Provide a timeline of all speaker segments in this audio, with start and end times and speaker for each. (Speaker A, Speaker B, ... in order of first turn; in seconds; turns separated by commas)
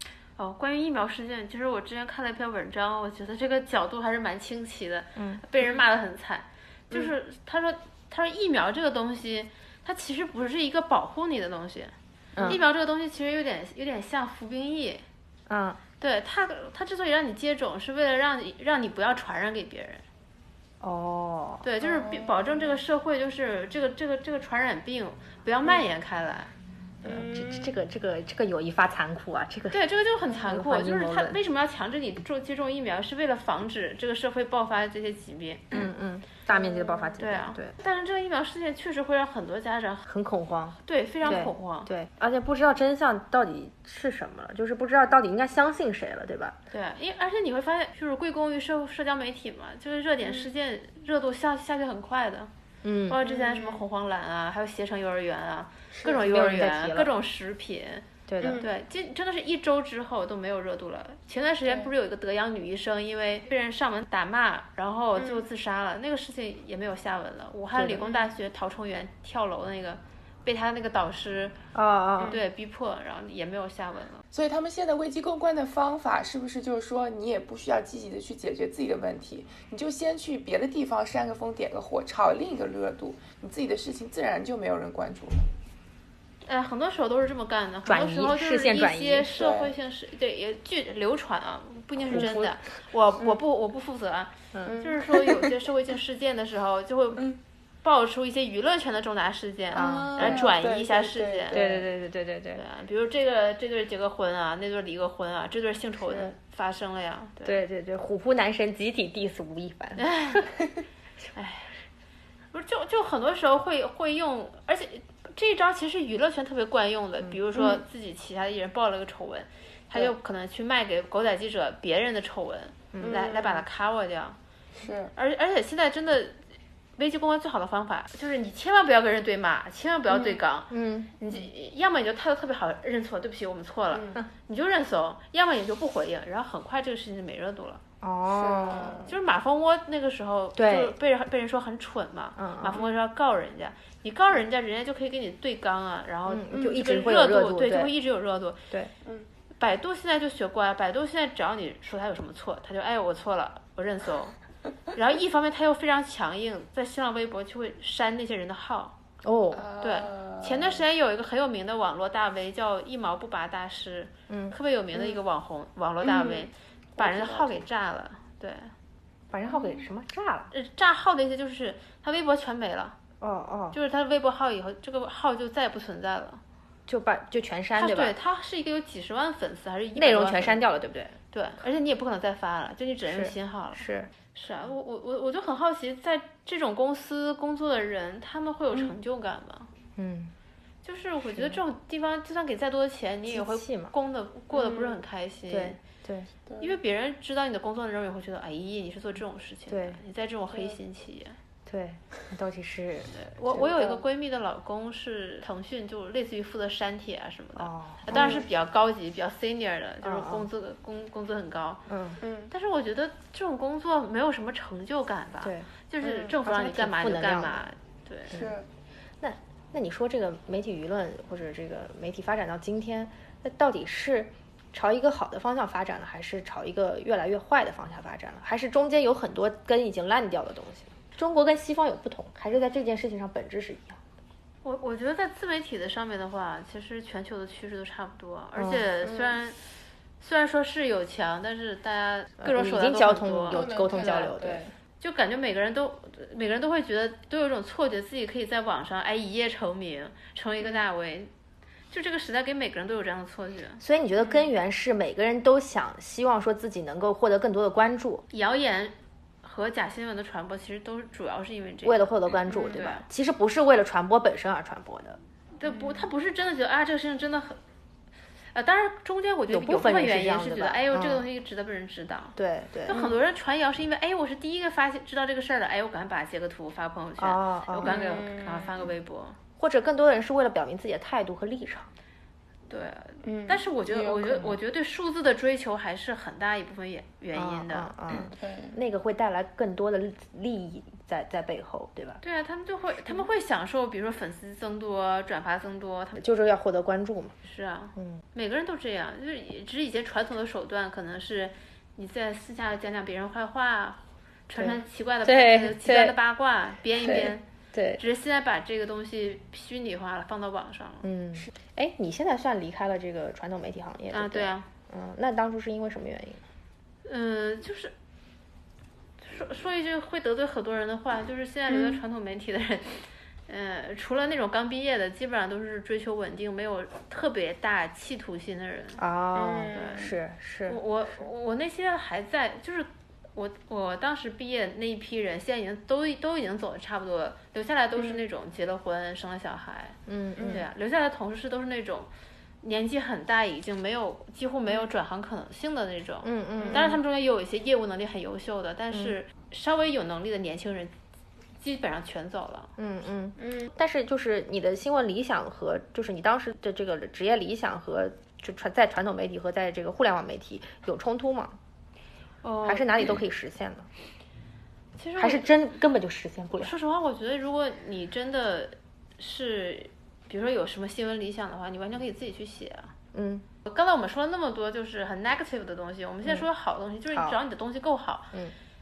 Speaker A: 0.4-15.0, Speaker B: 5.2-5.4, Speaker B: 12.4-12.6, Speaker B: 15.5-15.8, Speaker A: 16.0-20.0, Speaker B: 20.8-21.6, Speaker A: 21.6-26.5, Speaker C: 21.8-22.8, Speaker C: 27.1-27.7, Speaker B: 27.1-29.8, Speaker A: 29.7-35.9, Speaker B: 30.4-31.4, Speaker B: 35.7-37.8, Speaker A: 36.5-40.1, Speaker B: 40.1-46.6, Speaker A: 40.9-41.9, Speaker A: 46.7-52.5, Speaker B: 52.8-53.2, Speaker A: 53.1-71.6, Speaker C: 53.2-53.8, Speaker C: 56.0-56.3, Speaker B: 56.2-57.1, Speaker B: 58.3-58.6, Speaker C: 58.4-58.7, Speaker C: 65.2-65.5, Speaker B: 67.8-68.0, Speaker C: 68.0-68.3, Speaker B: 71.7-72.4, Speaker A: 72.2-74.2, Speaker C: 74.3-85.5, Speaker A: 86.5-101.6, Speaker B: 87.9-89.3, Speaker C: 89.3-89.7, Speaker B: 92.1-92.5, Speaker C: 94.7-95.5, Speaker C: 97.2-97.4, Speaker B: 99.7-100.5, Speaker C: 99.8-101.8, Speaker B: 101.5-102.6, Speaker A: 102.6-107.6, Speaker B: 107.4-110.5, Speaker A: 110.0-110.5, Speaker A: 111.3-111.7, Speaker A: 112.5-124.4, Speaker C: 117.5-117.8, Speaker B: 122.9-123.2, Speaker C: 123.0-123.6, Speaker C: 124.8-125.1, Speaker A: 125.2-126.4, Speaker A: 127.0-137.8, Speaker B: 130.7-131.4, Speaker C: 133.9-134.2, Speaker B: 138.0-139.0, Speaker C: 138.3-139.2, Speaker A: 139.1-148.6, Speaker B: 140.6-140.9, Speaker B: 142.4-142.8, Speaker B: 146.3-147.9, Speaker A: 149.6-154.4, Speaker A: 154.9-159.0, Speaker B: 159.2-159.7, Speaker C: 159.5-160.8, Speaker A: 159.8-168.7, Speaker B: 164.3-164.6, Speaker C: 166.0-167.6, Speaker B: 169.3-170.5, Speaker A: 170.5-173.0, Speaker B: 173.2-173.8, Speaker A: 173.7-176.4, Speaker B: 176.9-178.1, Speaker A: 177.8-180.6, Speaker B: 180.0-181.2, Speaker A: 181.3-189.7, Speaker B: 183.1-184.1, Speaker B: 190.0-190.3, Speaker A: 190.8-195.8, Speaker B: 191.3-191.6, Speaker B: 193.3-193.9, Speaker C: 194.5-195.0, Speaker B: 195.5-196.3, Speaker C: 196.5-196.8, Speaker A: 196.6-201.4, Speaker B: 199.7-200.0, Speaker B: 201.7-203.1, Speaker A: 203.1-211.9, Speaker C: 203.5-204.0, Speaker B: 207.6-208.4, Speaker C: 208.1-208.5, Speaker B: 210.0-210.5, Speaker B: 211.9-212.2, Speaker C: 212.2-212.5, Speaker A: 212.5-218.4, Speaker B: 215.4-215.7, Speaker C: 216.0-216.4, Speaker B: 216.4-217.6, Speaker C: 218.3-218.7, Speaker B: 219.2-234.0, Speaker A: 234.6-239.6, Speaker B: 238.6-238.8, Speaker C: 239.0-239.4, Speaker A: 240.2-244.5, Speaker B: 242.4-244.6, Speaker C: 243.5-244.7, Speaker A: 245.0-251.3, Speaker A: 251.9-253.8, Speaker B: 253.8-258.2, Speaker A: 258.3-263.0, Speaker B: 261.8-265.2, Speaker A: 265.6-267.6, Speaker C: 265.6-266.1, Speaker A: 268.5-272.4, Speaker B: 269.5-271.2, Speaker B: 272.4-273.0, Speaker A: 272.9-279.4, Speaker C: 272.9-273.2, Speaker B: 277.2-278.2, Speaker C: 277.8-278.9, Speaker B: 279.6-281.9, Speaker A: 282.7-287.9, Speaker C: 283.2-284.5, Speaker B: 287.3-292.2, Speaker C: 288.4-288.8, Speaker A: 292.2-296.2, Speaker B: 296.2-297.3, Speaker A: 297.4-307.4, Speaker B: 298.0-298.2, Speaker B: 304.6-306.2, Speaker B: 307.7-308.0, Speaker A: 308.0-311.1, Speaker B: 311.0-316.4, Speaker A: 314.1-314.7, Speaker A: 317.1-317.9, Speaker A: 319.2-329.0, Speaker C: 321.7-322.0, Speaker B: 329.0-330.8, Speaker C: 329.3-330.1, Speaker A: 329.7-330.1, Speaker A: 330.7-342.1, Speaker C: 338.0-338.2, Speaker B: 340.1-340.6, Speaker C: 340.4-340.6, Speaker A: 342.6-350.9, Speaker B: 346.2-347.0, Speaker C: 346.6-346.9, Speaker A: 351.6-352.7, Speaker B: 352.8-361.6, Speaker C: 353.4-353.7, Speaker A: 362.4-363.2, Speaker B: 362.7-363.9, Speaker A: 365.0-365.5, Speaker B: 365.2-366.7, Speaker A: 366.6-372.9, Speaker B: 373.1-373.5, Speaker A: 373.6-378.3